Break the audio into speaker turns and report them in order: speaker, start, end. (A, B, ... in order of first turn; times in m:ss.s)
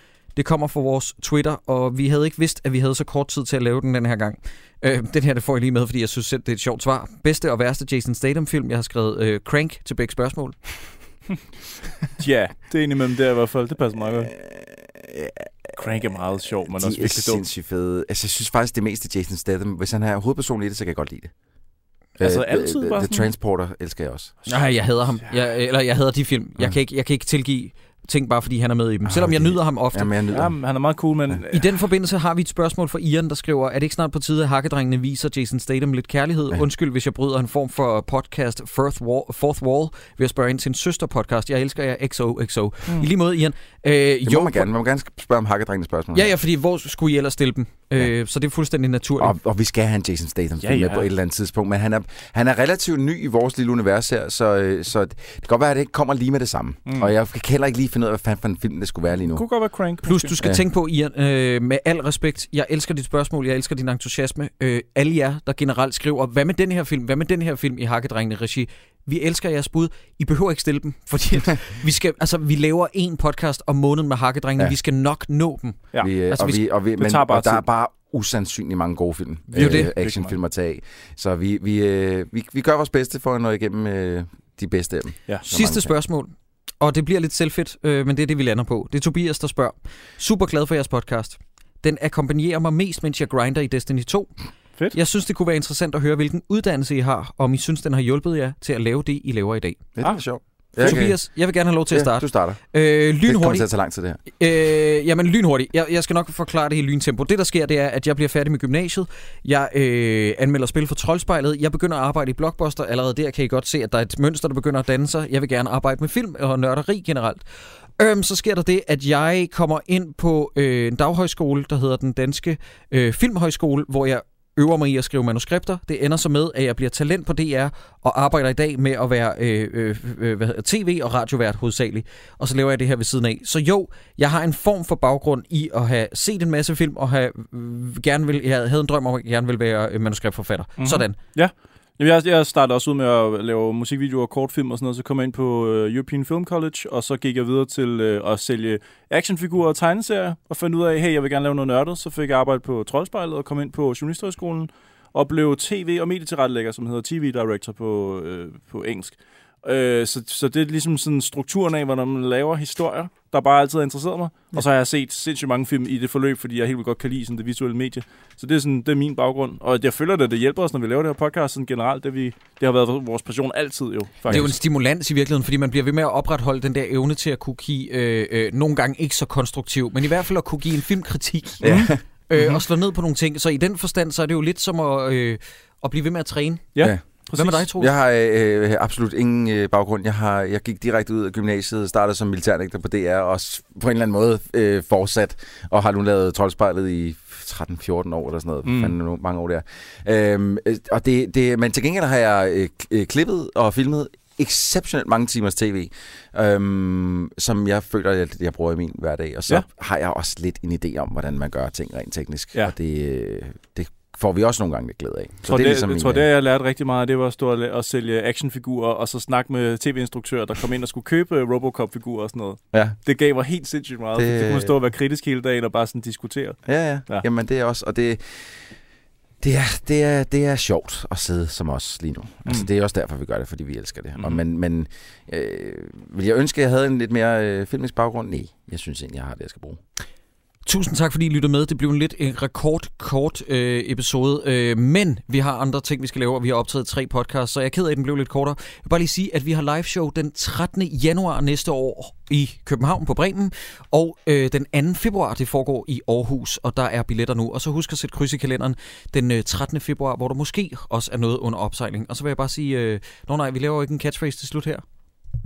0:00.4-0:10.6 A
0:12.2-0:14.3 B
0:14.4-0:15.8 C
0:15.8-0:17.4 B
0:16.7-0:21.3 C
0:22.2-0:23.3 B
0:22.2-0:24.5 C
0:24.5-0:30.1 A
0:29.1-0:30.5 C
0:30.3-0:31.7 B
0:31.5-0:44.7 A
0:44.2-0:46.3 C
0:46.1-0:49.4 A
0:49.2-0:59.4 C
0:50.6-0:51.1 B
0:59.3-1:00.3 B
1:00.0-1:16.6 A
1:16.0-1:25.9 C
1:17.0-1:17.6 B
1:19.5-1:20.4 B
1:19.5-1:19.9 A
1:25.5-1:34.3 A
1:34.9-1:39.9 A
1:40.0-1:41.2 C
1:40.8-1:43.7 A
1:41.9-1:42.6 C
1:43.2-1:44.2 C
1:44.4-1:57.4 A
1:58.0-2:21.2 A
2:20.8-2:54.5 B
2:54.3-3:01.7 A
2:54.3-2:54.6 C
3:01.6-3:02.0 C
3:01.6-3:02.6 B
3:02.3-3:06.7 A
3:06.8-3:07.7 B
3:07.3-3:07.9 A
3:07.8-3:36.3 C
3:18.6-3:19.0 B
3:35.5-3:47.2 B
3:44.2-3:44.7 C
3:46.7-3:48.2 C
3:49.4-3:59.8 C
4:00.7-4:24.8 A